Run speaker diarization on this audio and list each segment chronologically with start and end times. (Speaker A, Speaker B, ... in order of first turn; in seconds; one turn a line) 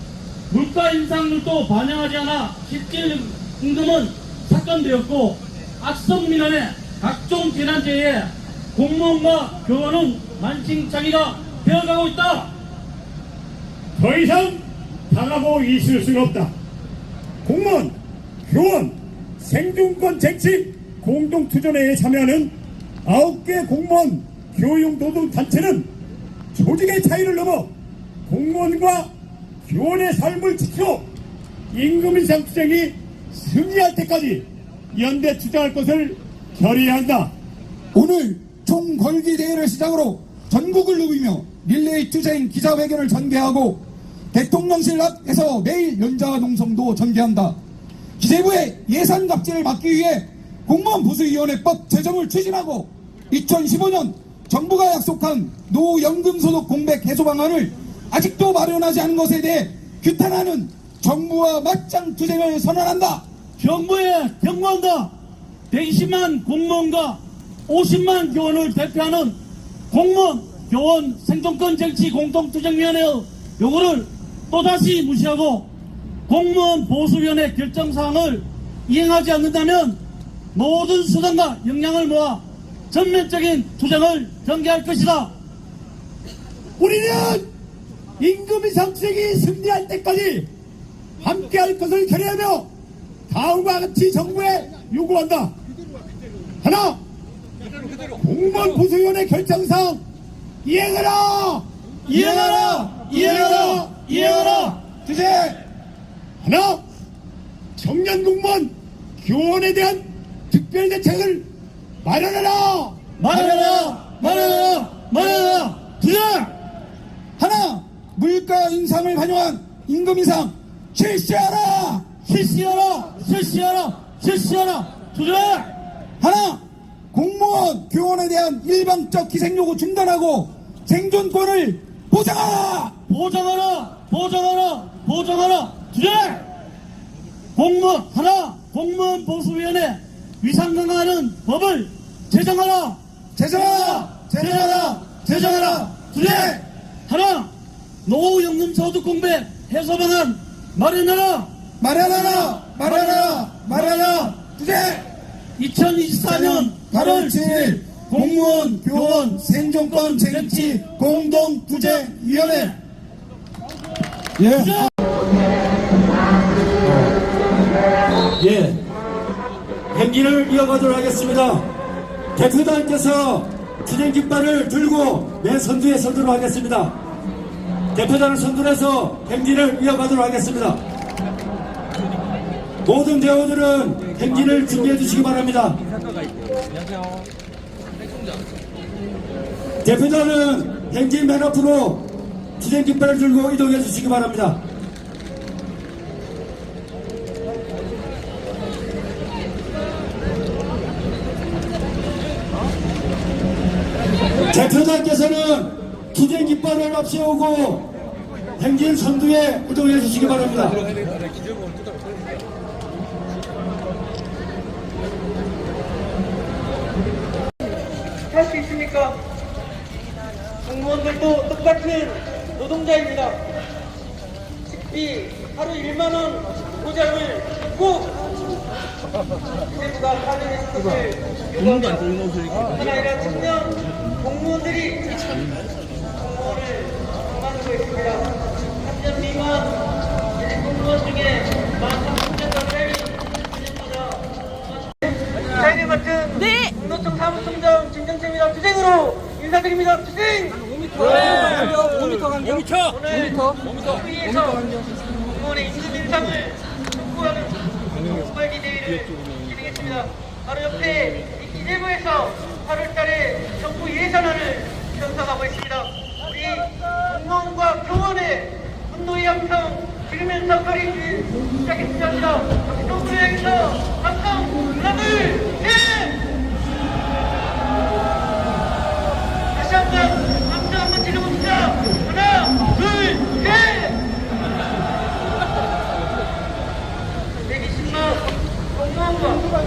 Speaker A: 0.5-12.5
Speaker B: 14.0-16.5
Speaker B: 17.4-17.9
Speaker B: 18.5-25.9
Speaker B: 26.5-27.7
Speaker B: 28.3-29.1
Speaker B: 29.7-31.1
Speaker B: 31.7-37.3
Speaker C: 37.9-47.5
Speaker C: 48.2-63.2
Speaker A: 63.6-65.1
Speaker A: 65.7-69.4
Speaker A: 69.9-75.7
Speaker A: 76.3-80.0
Speaker A: 80.5-85.3
Speaker B: 86.8-87.5
Speaker B: 88.2-90.5
Speaker B: 91.2-92.7
Speaker B: 93.3-95.5
Speaker B: 96.6-97.0
Speaker B: 98.2-100.0
Speaker B: 100.6-101.7
Speaker A: 102.1-104.8
Speaker C: 102.1-103.8
Speaker B: 103.2-103.9
Speaker C: 104.9-105.6
Speaker B: 106.4-106.8
Speaker B: 107.8-111.5
Speaker B: 112.0-113.0
Speaker A: 113.2-116.5
Speaker C: 113.3-114.0
Speaker C: 117.4-122.0
Speaker A: 122.2-125.7
Speaker C: 126.2-126.6
Speaker C: 127.1-132.9
Speaker A: 133.1-136.4
Speaker A: 137.6-143.0
Speaker C: 143.4-146.6
Speaker A: 143.5-147.5
Speaker A: 148.1-151.5
Speaker C: 151.8-155.1
Speaker A: 152.8-153.4
Speaker A: 155.6-160.8
Speaker C: 156.2-162.8
Speaker A: 161.7-162.7
Speaker C: 164.4-164.9
Speaker A: 164.5-164.9
Speaker D: 168.4-168.8
Speaker D: 169.9-171.7
Speaker D: 172.4-176.9
Speaker D: 177.9-180.8
Speaker D: 182.8-185.8
Speaker D: 189.8-192.1
Speaker D: 192.6-194.6
Speaker D: 204.5-207.9
Speaker D: 208.6-210.8
Speaker E: 218.3-219.2
Speaker E: 220.7-223.5
Speaker E: 224.7-228.3
Speaker E: 229.7-235.2
Speaker E: 236.2-239.9
Speaker E: 240.4-244.2
Speaker E: 245.0-276.2
Speaker E: 279.6-284.0
Speaker E: 287.5-289.5